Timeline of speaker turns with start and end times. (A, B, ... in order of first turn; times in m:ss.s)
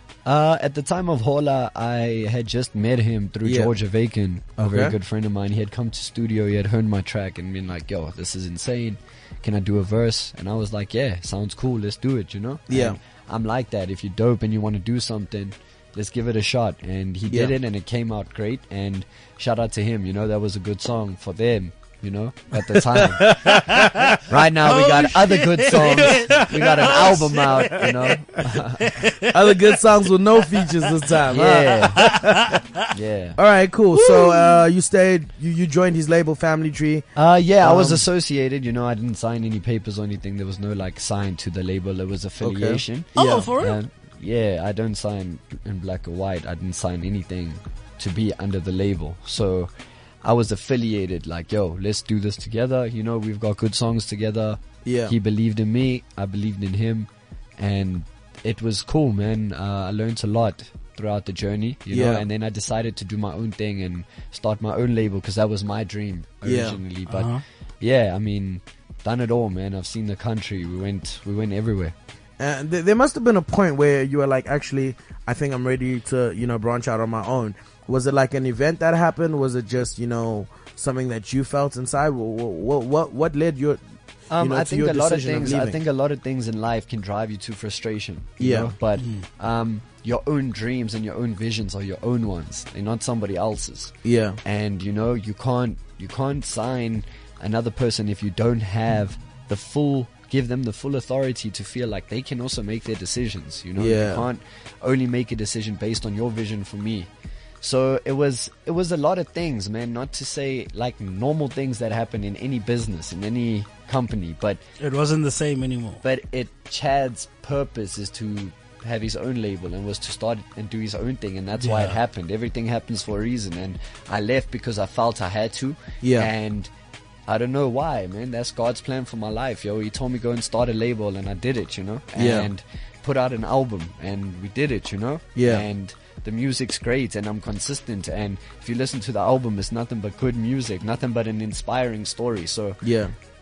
0:00.2-0:23.6 A
0:03.4-0:03.7 B
0:04.6-0:05.0 B
0:12.7-0:13.0 B
0:17.3-0:17.6 B
0:22.7-0:24.1 B
0:23.5-0:28.2 C
0:24.2-0:29.0 A
0:28.8-0:29.8 C
0:29.3-0:32.3 B
0:30.6-0:30.9 C
0:31.2-0:32.3 A
0:32.0-0:32.9 C
0:32.9-0:33.4 A
0:33.4-0:38.0 B
0:33.9-0:34.6 C
0:37.2-0:49.7 A
0:42.4-0:43.5 B
0:43.2-0:43.8 C
0:50.2-1:12.0 A
0:54.8-0:55.2 B
1:01.9-1:02.2 B
1:06.4-1:06.8 B
1:07.1-1:07.4 C
1:12.4-1:23.8 B
1:24.3-1:33.9 A
1:24.4-1:25.8 B
1:28.4-1:28.7 B
1:29.0-1:29.2 C
1:34.0-1:34.4 B
1:34.4-1:47.1 A
1:43.8-1:44.2 B
1:47.6-1:54.6 A
1:54.8-1:56.0 C
1:56.0-2:06.7 A
2:01.6-2:02.0 C
2:06.0-2:06.3 B
2:07.3-2:22.8 A
2:12.2-2:12.5 B
2:15.4-2:15.6 B
2:22.8-2:23.1 B